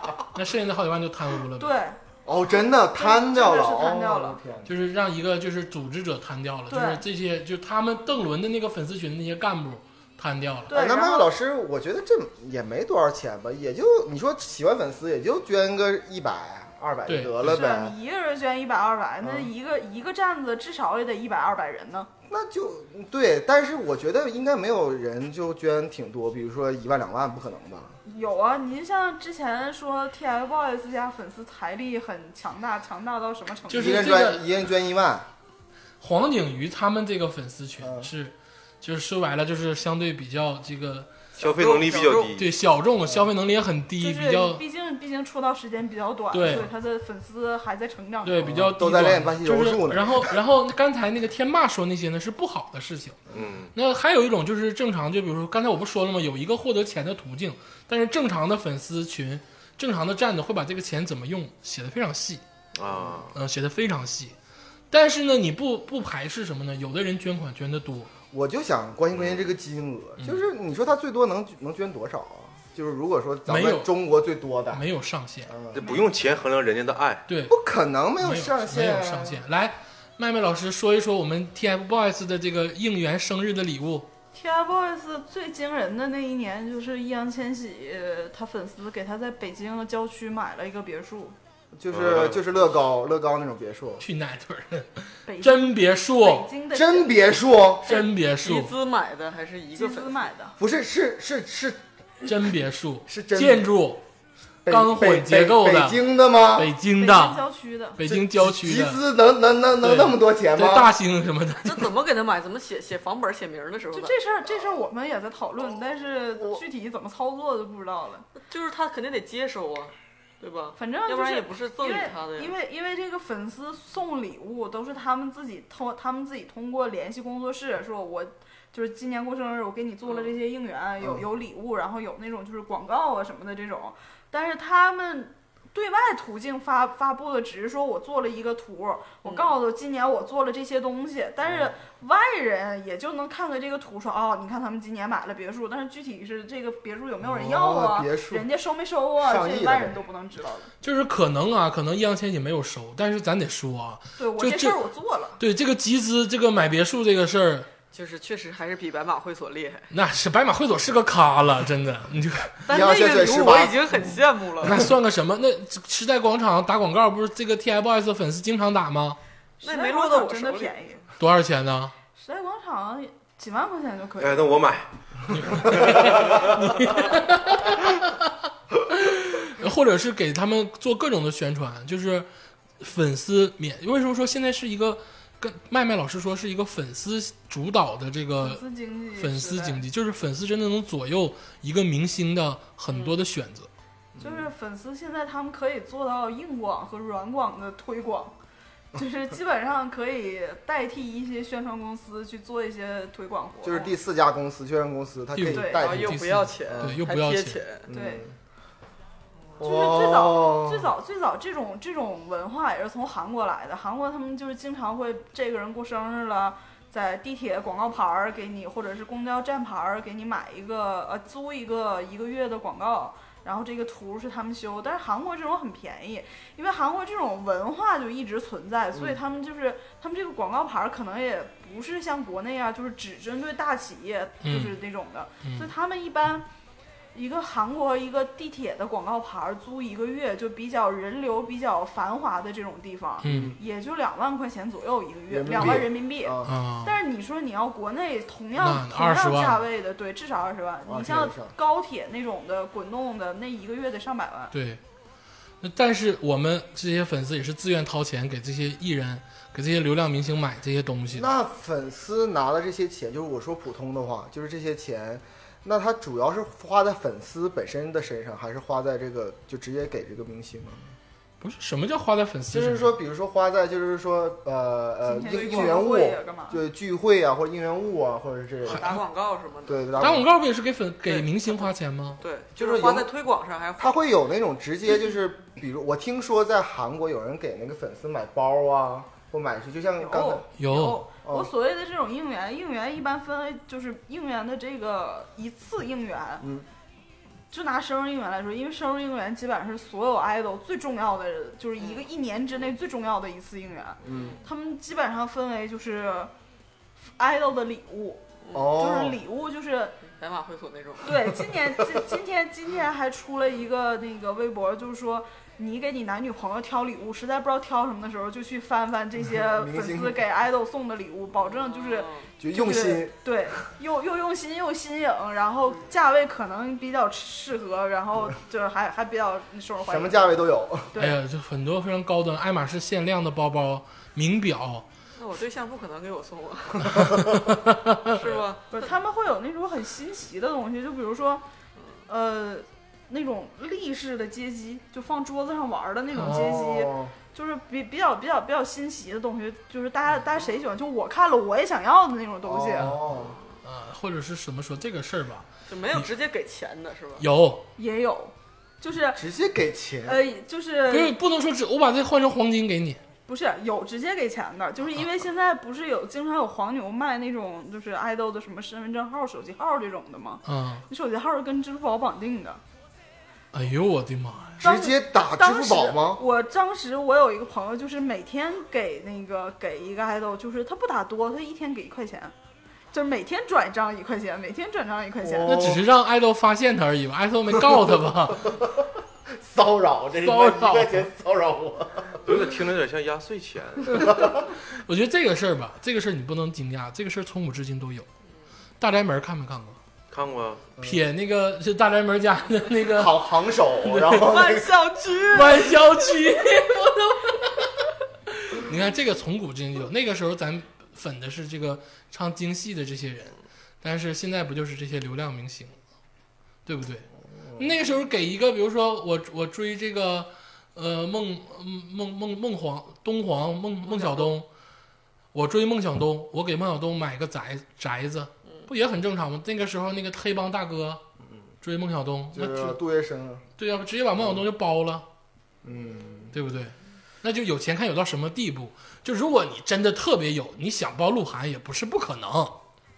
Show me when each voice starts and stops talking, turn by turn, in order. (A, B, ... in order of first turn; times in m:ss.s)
0:00.3-0:01.8 A
0:01.6-0:02.0 B
0:02.2-0:04.7 C
0:03.0-0:04.4 B
0:04.6-0:10.7 A
0:06.7-0:07.0 B
0:10.7-0:11.3 B
0:10.7-0:17.9 C
0:17.1-0:17.6 A
0:17.4-0:22.1 B
0:19.2-0:19.5 C
0:22.3-0:28.0 C
0:28.0-0:34.1 B
0:33.7-0:34.4 A
0:33.7-0:35.3 C
0:36.0-0:41.2 A
0:37.8-0:38.1 C
0:41.3-0:42.4 D
0:41.4-0:42.5 E
0:42.4-0:44.6 A
0:44.0-0:48.4 B
0:46.3-0:46.7 A
0:48.2-0:53.2 A
0:48.4-0:50.3 C
0:53.3-0:53.7 E
0:53.7-1:02.4 A
1:02.8-1:03.3 E
1:03.3-1:04.3 A
1:04.9-1:08.1 A
1:08.3-1:14.8 C
1:09.1-1:09.4 E
1:13.5-1:13.9 A
1:14.7-1:15.5 A
1:15.5-1:16.0 C
1:15.7-1:17.2 E
1:15.8-1:16.2 B
1:17.3-1:17.6 A
1:17.5-1:19.4 C
1:18.2-1:24.1 A
1:24.3-1:31.4 B
1:31.8-1:34.0 C
1:31.9-1:32.4 E
1:34.0-1:36.5 A
1:35.3-1:37.4 B
1:36.7-1:37.9 C
1:37.8-1:38.7 A
1:37.8-1:40.3 D
1:39.7-1:40.5 B
1:40.6-1:42.3 C
1:42.2-1:44.0 A
1:43.1-1:43.7 C
1:44.6-1:46.7 C
1:44.7-1:47.4 A
1:47.0-1:48.0 B
1:48.0-1:49.0 A
1:48.0-1:50.9 C
1:49.8-1:51.9 A
1:51.6-1:54.2 D
1:53.9-1:58.3 B
1:58.4-2:02.5 D
2:00.8-2:30.7 B
2:10.1-2:10.3 D
2:19.2-2:19.5 D
2:21.4-2:21.7 C
2:27.2-2:28.4 C
2:29.2-2:30.0 C
2:30.8-2:34.8 A
2:34.2-2:35.4 B
2:35.4-2:37.7 A
2:37.9-2:39.9 D
2:39.9-2:42.6 A
2:42.7-2:44.8 D
2:42.7-2:43.8 C
2:44.6-2:49.2 A
2:49.6-2:50.8 D
2:49.6-2:51.0 B
2:51.2-2:51.9 A
2:52.2-2:54.6 B
2:54.2-2:56.5 E
2:55.3-3:02.3 A
3:02.8-3:08.6 A
3:08.4-3:09.8 B
3:09.2-3:13.7 A
3:12.9-3:13.2 D
3:14.2-3:14.5 C
3:14.2-3:18.4 B
3:18.9-3:23.9 B
3:23.6-3:27.0 C
3:25.3-3:27.6 A
3:25.4-3:25.8 B
3:25.8-3:27.9 D
3:27.9-3:28.3 C
3:27.9-3:28.2 B
3:29.6-3:30.9 C
3:29.6-3:56.4 B
3:54.4-3:54.8 A
3:55.4-3:55.7 A
3:57.1-4:14.5 B
4:03.2-4:03.6 A
4:03.2-4:03.6 C
4:05.3-4:06.5 C
4:06.4-4:07.0 A
4:08.6-4:09.6 A
4:10.9-4:11.5 C
4:14.5-4:14.8 A
4:15.6-4:21.3 A
4:21.1-4:30.9 C
4:31.4-4:33.0 A
4:32.5-4:39.0 C
4:35.0-4:36.6 B
4:38.6-4:39.0 A
4:38.6-4:40.2 D
4:39.6-4:40.3 C
4:40.0-4:42.2 A
4:41.0-4:44.0 D
4:42.6-4:43.1 C
4:43.8-4:50.4 C
4:50.0-4:56.5 B
4:50.6-4:51.0 A
4:51.2-4:51.5 C
4:56.4-4:56.6 C
4:57.5-5:06.3 B
5:01.8-5:02.1 D
5:04.0-5:04.4 C
5:04.1-5:04.4 D
5:07.2-5:10.0 B
5:08.4-5:08.7 D
5:08.5-5:09.2 C
5:10.0-5:11.3 D
5:11.0-5:30.2 B
5:19.2-5:20.2 C
5:21.4-5:22.3 D
5:22.4-5:23.2 C
5:29.8-5:30.9 C
5:30.9-5:31.2 B
5:31.0-5:34.9 A
5:35.2-5:37.0 D
5:36.9-5:38.2 A
5:38.1-5:38.9 D
5:38.7-5:41.4 B
5:42.1-5:53.0 B
5:46.2-5:46.6 A
5:46.2-5:47.1 C
5:52.4-5:53.4 C
5:52.8-5:56.0 A
5:55.7-5:57.3 D
5:57.2-5:57.7 A
5:57.8-5:59.2 B
5:59.2-6:00.2 C
6:00.0-6:01.2 B
6:00.9-6:03.0 A
6:03.3-6:12.6 B
6:10.4-6:10.8 A
6:13.5-6:14.6 A
6:14.6-6:16.2 C
6:14.6-6:22.3 B
6:22.9-6:25.6 B
6:25.2-6:25.8 C
6:25.4-6:28.6 A
6:29.3-6:32.3 C
6:30.2-6:31.1 A
6:32.2-6:34.1 E
6:34.0-6:34.4 C
6:34.7-6:38.0 A
6:38.8-6:39.8 A
6:40.1-6:40.7 E
6:40.8-6:44.4 A
6:42.9-6:44.7 C
6:44.2-6:46.1 D
6:45.3-6:47.7 A
6:48.3-6:55.8 A
6:56.6-7:04.5 A
7:03.8-7:04.3 D
7:05.3-7:11.0 A
7:08.4-7:08.7 D
7:11.6-7:12.8 A
7:12.3-7:13.4 C
7:13.6-7:15.0 A
7:14.2-7:14.4 C
7:15.6-7:16.4 C
7:16.3-7:22.6 A